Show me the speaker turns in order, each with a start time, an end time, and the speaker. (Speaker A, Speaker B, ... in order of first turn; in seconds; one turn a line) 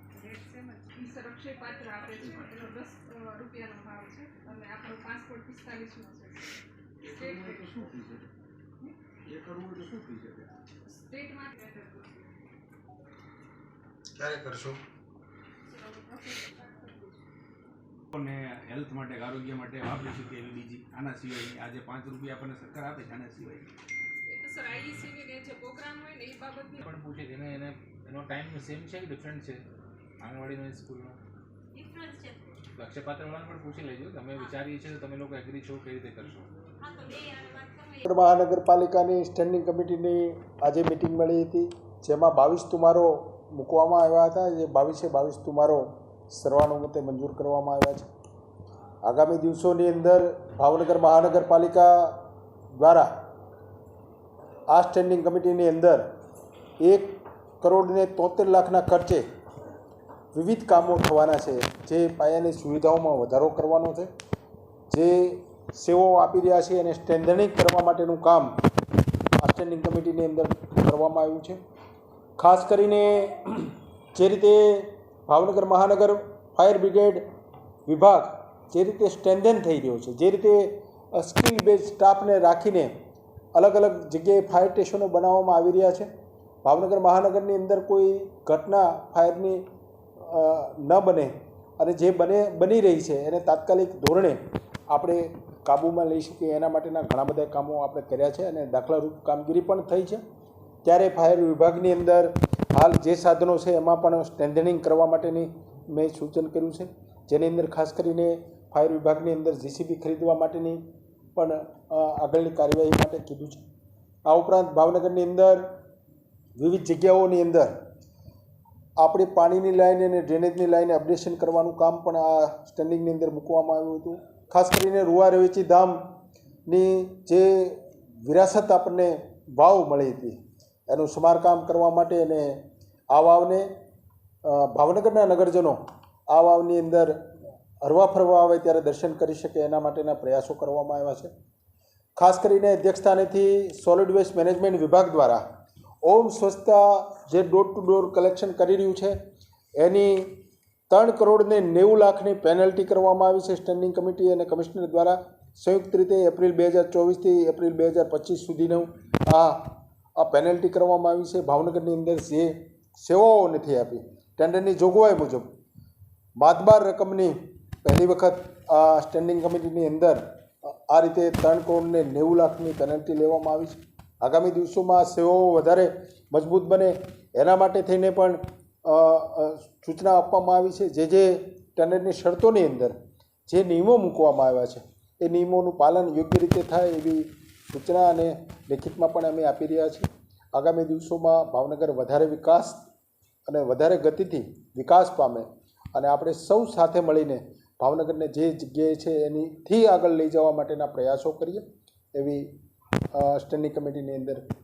Speaker A: 0.2-6.5
Speaker B: 2.1-2.7
Speaker B: 7.0-8.3
Speaker A: 7.2-7.7
Speaker B: 9.2-10.5
Speaker A: 10.9-12.3
Speaker C: 14.2-14.8
Speaker A: 15.7-17.2
Speaker B: 18.1-23.7
Speaker A: 24.3-26.8
Speaker D: 26.8-29.6
Speaker D: 30.2-31.2
Speaker E: 31.7-32.6
Speaker D: 32.8-36.5
Speaker E: 36.8-38.0
Speaker C: 38.0-48.1
Speaker C: 49.0-52.2
Speaker C: 52.7-53.1
Speaker C: 54.7-56.0
Speaker C: 56.8-59.2
Speaker C: 60.3-64.1
Speaker C: 64.9-68.5
Speaker C: 69.4-71.6
Speaker C: 72.4-77.2
Speaker C: 77.9-82.9
Speaker C: 83.5-86.1
Speaker C: 86.6-89.6
Speaker C: 90.2-94.4
Speaker C: 94.9-100.2
Speaker C: 100.8-110.8
Speaker C: 111.3-113.6
Speaker C: 114.2-115.7
Speaker C: 116.6-117.7
Speaker C: 119.0-126.0
Speaker C: 126.7-130.3
Speaker C: 130.9-132.6
Speaker C: 133.1-133.7
Speaker C: 134.4-135.8
Speaker C: 136.3-137.1
Speaker C: 137.8-141.3
Speaker C: 142.2-145.4
Speaker C: 146.0-149.2
Speaker C: 149.8-150.4
Speaker C: 150.9-165.5
Speaker C: 166.4-182.9
Speaker C: 183.5-192.8
Speaker C: 193.4-201.6
Speaker C: 202.1-202.5
Speaker C: 203.1-204.4